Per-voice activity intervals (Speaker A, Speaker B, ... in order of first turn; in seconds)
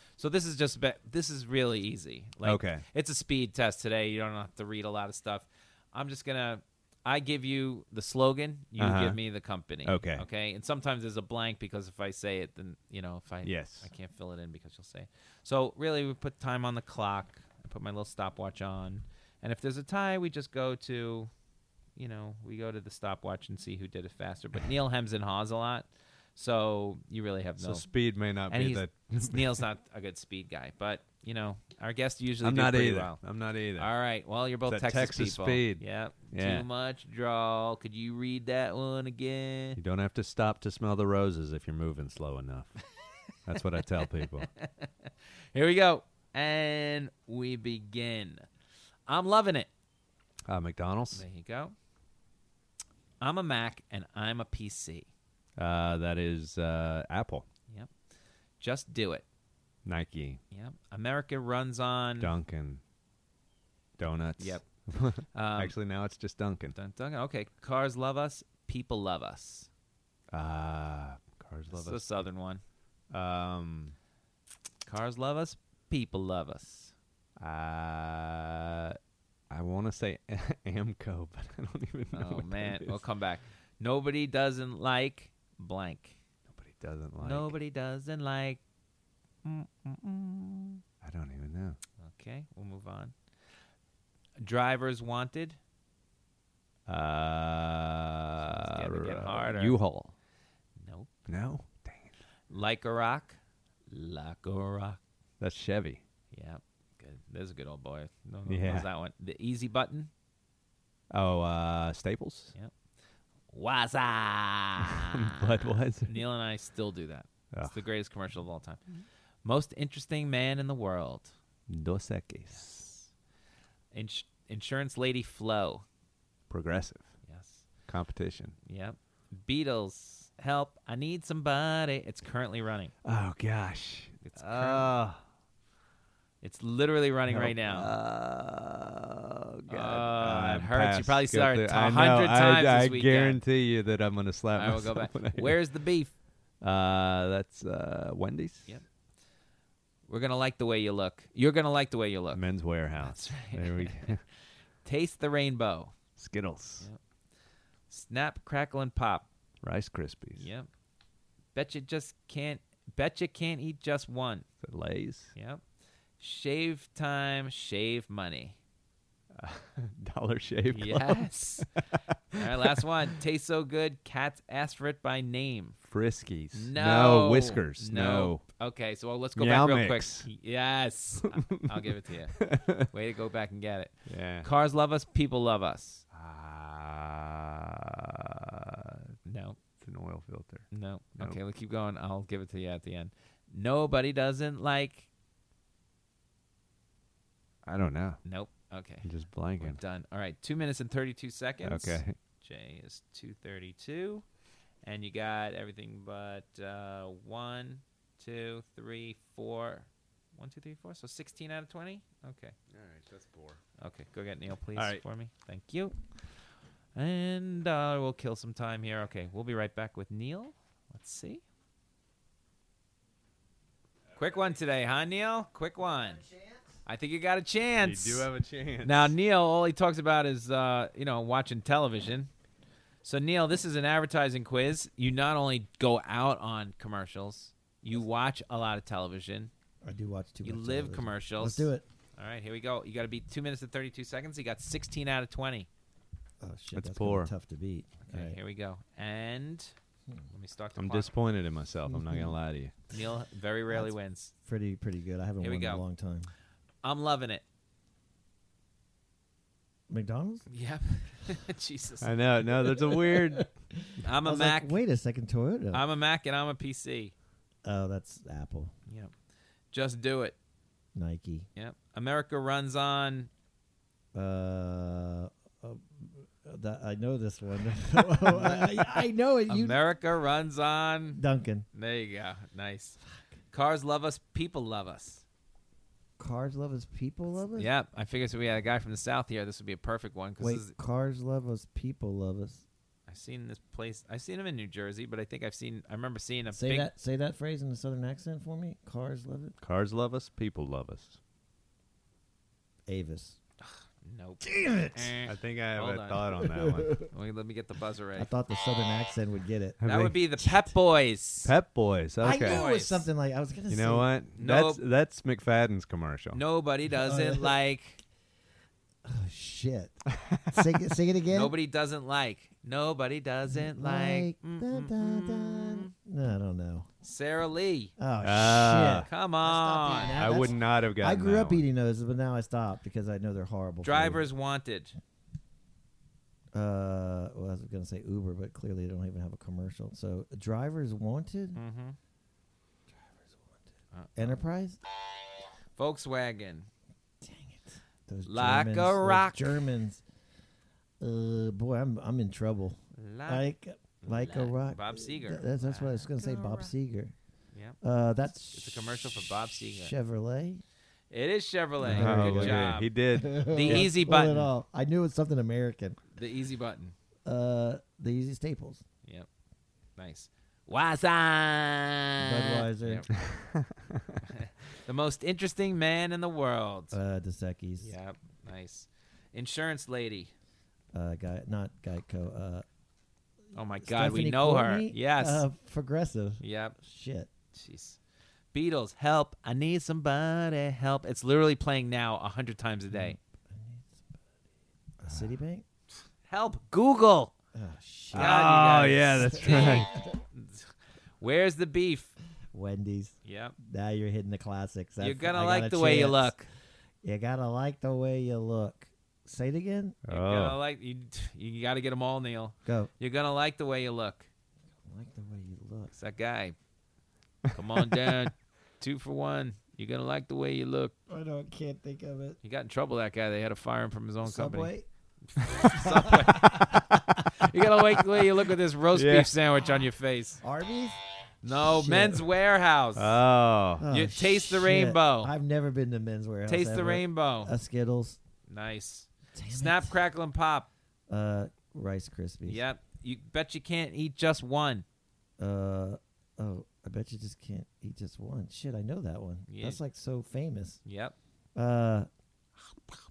Speaker A: 0.2-21.3, 21.9-27.9, 28.5-33.2, 33.8-39.8, 44.2-48.4, 49.1-49.7, 51.1-51.7, 53.2-55.1, 58.6-59.2, 60.5-62.3, 64.4-64.6, 65.3-65.8, 66.7-69.7, 71.7-72.6, 74.8-76.9, 82.1-86.2, 87.2-88.6, 89.4-90.8, 92.0-93.1, 94.4-95.6, 98.4-99.8, 100.8-101.1, 102.5-103.4, 103.9-105.0, 106.3-110.1, 113.5-118.8, 119.4-121.3, 122.5-123.0, 123.9-125.8, 127.2-127.7, 128.7-132.9, 134.2-134.9, 136.4-137.9, 139.7-143.4, 144.6-146.1, 150.1-152.4, 153.0-154.1, 154.8-155.9, 157.9-159.3, 160.4-160.7, 161.5-164.4, 165.3-165.6, 166.2-168.6, 170.7-171.7, 172.3-175.8, 176.5-186.0, 189.2-189.6, 190.7-195.1, 198.2-204.2, 204.8-212.5, 213.8-216.0, 216.9-221.4, 224.2-226.2, 226.8-228.3, 228.8-232.3, 233.0-239.5, 240.4-245.7, 248.1-249.7, 250.3-251.1, 252.9-254.3, 255.4-255.8, 256.8-257.4, 260.5-262.1, 264.0-264.8, 265.7-267.1, 269.7-270.4, 271.6-273.3, 278.2-278.9, 279.5-281.2, 281.7-283.0, 283.5-285.2, 287.6-290.7, 293.1-296.9, 303.6-306.2, 307.1-308.3, 309.8-311.5, 312.4-313.1, 314.4-314.8, 316.3-318.0, 321.3-325.9, 327.0-327.9, 329.0-330.4, 333.8-334.9, 341.5-341.9, 343.9-344.4, 345.8-346.7, 348.2-349.7, 352.9-353.5, 354.0-356.5, 358.5-359.9, 361.1-362.9, 363.4-364.4, 366.1-366.9, 370.0-373.1, 374.3-376.9, 377.8-380.3, 383.5-385.4, 386.4-386.8, 387.5-388.0, 388.5-393.2, 396.3-397.3, 398.1-402.1, 403.2-403.6, 405.0-406.5, 410.1-414.3, 415.9-416.5, 417.5-420.9, 422.4-424.7, 425.7-426.4, 427.4-430.4, 431.4-433.1, 433.9-435.3, 436.4-437.5, 438.5-440.7, 442.4-444.8, 449.5-449.8, 450.8-451.1
Speaker B: 2.4-2.8, 8.8-9.2, 9.8-10.2, 13.4-13.9, 27.6-29.6, 32.4-33.9, 34.7-36.6, 39.8-42.7, 43.5-44.5, 50.5-51.2, 55.6-57.5, 59.8-60.4, 62.2-62.8, 64.0-66.8, 70.3-72.0, 73.1-73.9, 77.4-79.0, 79.5-83.0, 86.5-87.5, 91.0-91.8, 96.9-100.1, 101.3-102.1, 105.4-106.0, 108.5-108.8, 111.1-112.5, 114.8-116.2, 117.5-117.8, 121.7-122.9, 126.5-127.1, 127.9-128.6, 133.0-135.2, 137.3-145.6, 146.6-148.7, 152.3-154.2, 156.2-156.9, 159.6-160.5, 164.6-165.3, 169.3-171.6, 175.8-178.4, 179.3-180.3, 182.3-182.9, 184.1-184.5, 186.1-189.0, 189.8-190.7, 197.6-198.2, 199.0-199.8, 201.6-202.2, 212.7-213.6, 214.8-215.0, 227.8-229.1, 246.7-247.3, 250.8-252.7, 262.0-263.5, 299.6-301.2, 305.2-307.0, 309.8-310.1, 311.4-312.6, 313.7-316.4, 320.2-320.7, 328.2-329.1, 330.1-331.6, 361.8-364.5, 373.2-374.2, 398.1-399.9, 410.1-410.6, 425.4-427.2, 428.9-429.3, 432.9-433.9
Speaker C: 226.2-226.6, 239.8-241.8, 246.4-248.4, 251.9-252.3, 254.4-256.3, 259.9-260.4, 262.9-265.8, 267.6-268.7, 270.9-271.5, 274.1-279.8, 281.1-281.7, 286.2-287.7, 290.4-292.6, 296.5-299.6, 302.9-303.4, 304.4-305.1, 306.4-307.0, 308.2-309.8, 310.4-310.7, 312.2-314.1, 317.0-317.5, 319.1-321.5, 323.5-326.9, 328.0-334.2, 336.5-341.6, 344.1-344.8, 347.2-350.0, 351.0-357.1, 357.8-358.7, 359.7-360.6, 361.8-366.0, 367.2-368.8, 372.2-373.1, 376.9-377.9, 380.9-382.6, 383.8-387.3, 392.9-394.1, 395.0-395.6, 397.5-398.7, 399.3-400.0, 402.5-406.3, 407.0-410.0, 412.6-412.9, 414.9-415.9, 421.1-422.4, 424.2-424.9, 425.7-426.8, 430.4-430.9, 431.5-432.2, 433.8-438.2, 439.3-439.9, 441.1-442.6, 445.4-450.8, 451.5-452.1